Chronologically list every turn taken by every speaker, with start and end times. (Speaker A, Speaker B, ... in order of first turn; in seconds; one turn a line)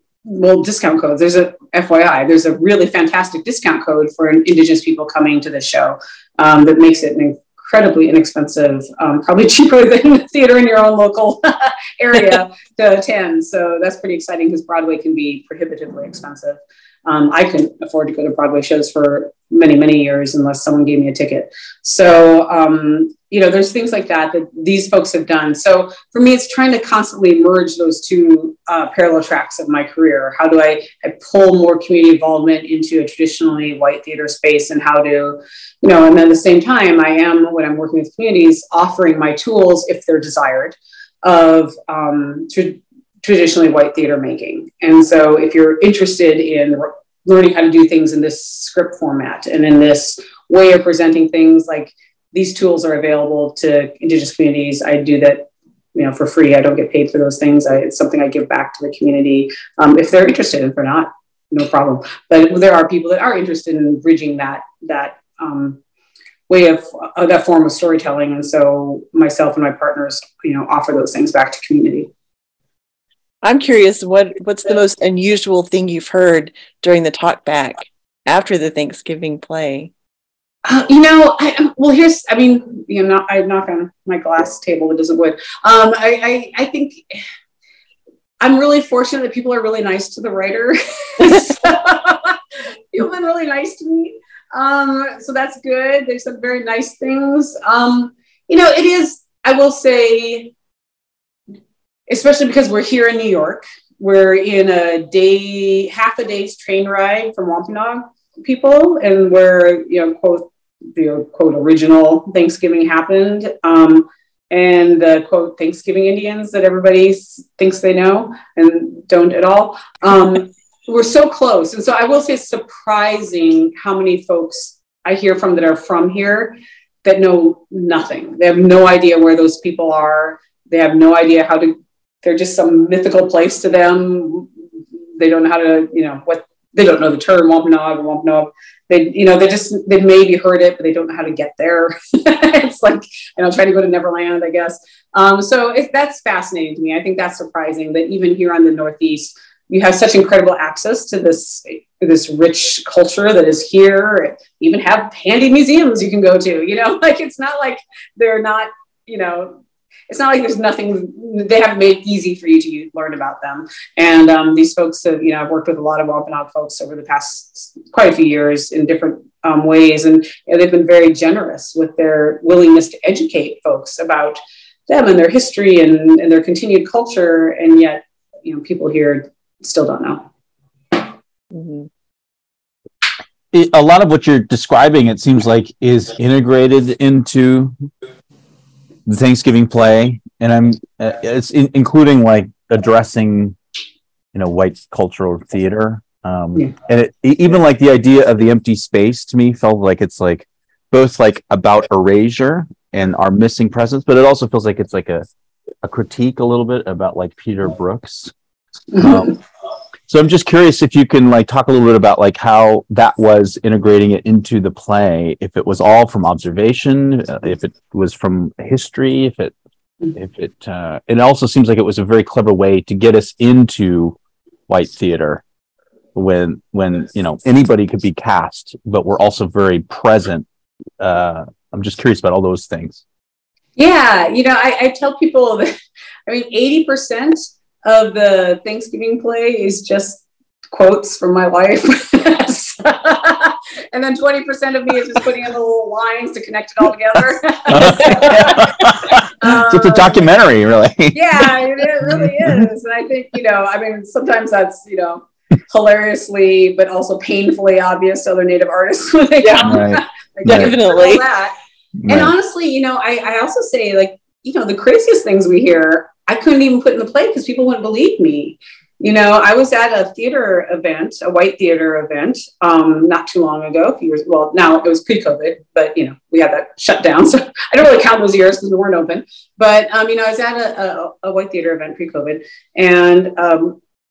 Speaker A: 0.2-65.8
Speaker A: 66.5-72.1
Speaker B: 73.4-79.9
Speaker A: 80.7-87.2
Speaker A: 88.4-92.4
Speaker A: 92.9-100.5
Speaker A: 102.1-134.5
Speaker A: 135.2-180.3
Speaker B: 181.5-181.9
Speaker C: 183.5-187.7
Speaker C: 189.1-193.6
Speaker C: 194.3-205.3
Speaker C: 205.8-208.3
Speaker A: 208.9-209.4
Speaker C: 209.0-209.4
Speaker C: 210.1-219.5
Speaker C: 220.1-224.2
Speaker C: 224.7-225.4
Speaker C: 226.2-230.5
Speaker C: 231.0-233.0
Speaker A: 233.8-235.8
Speaker A: 236.3-250.3
Speaker C: 247.7-252.7
Speaker B: 248.0-248.3
Speaker A: 251.1-261.5
Speaker B: 259.4-259.8
Speaker C: 259.6-260.7
Speaker B: 260.4-261.3
Speaker C: 262.0-262.3
Speaker A: 262.1-283.8